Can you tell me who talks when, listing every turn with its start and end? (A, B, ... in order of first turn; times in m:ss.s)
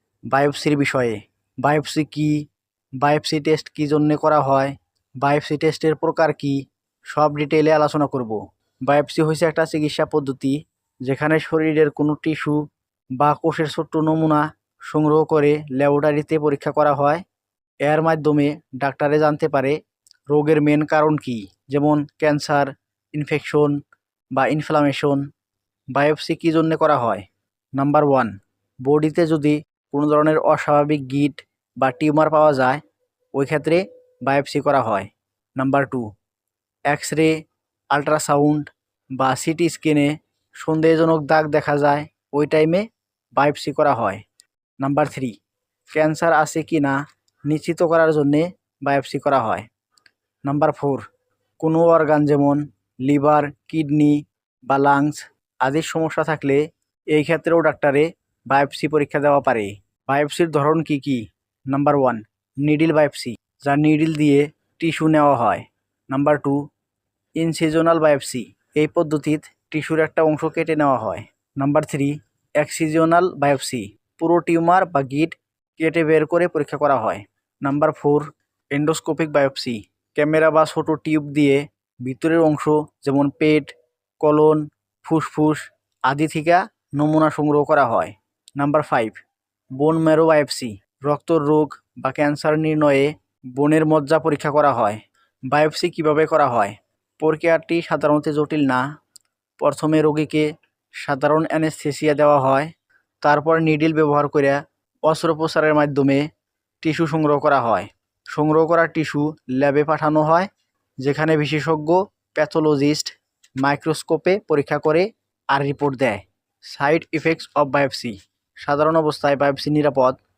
0:00.3-0:02.4 A
0:03.0-0:12.6 A
0:13.2-0:17.2 A
0:17.8-0:19.8 A
0:20.3-0:23.8 A
0:24.3-0:25.2 A
0:25.9-0:27.2 A
0:27.8-0:32.8 A
0:33.3-0:36.0 A
0:36.9-0:37.3 A
0:37.9-0:42.8 A
0:43.4-0:44.2 A
0:44.8-0:45.3 A
0:45.9-0:49.7 A
0:50.4-0:51.0 A
0:51.6-1:06.6 A
1:07.4-1:29.2 A
1:29.8-1:35.0 A
1:35.5-1:38.8 A
1:39.6-1:40.5 A
1:41.0-1:42.7 A
1:43.2-1:46.3 A
1:46.8-1:50.5 A
1:51.0-2:00.2 A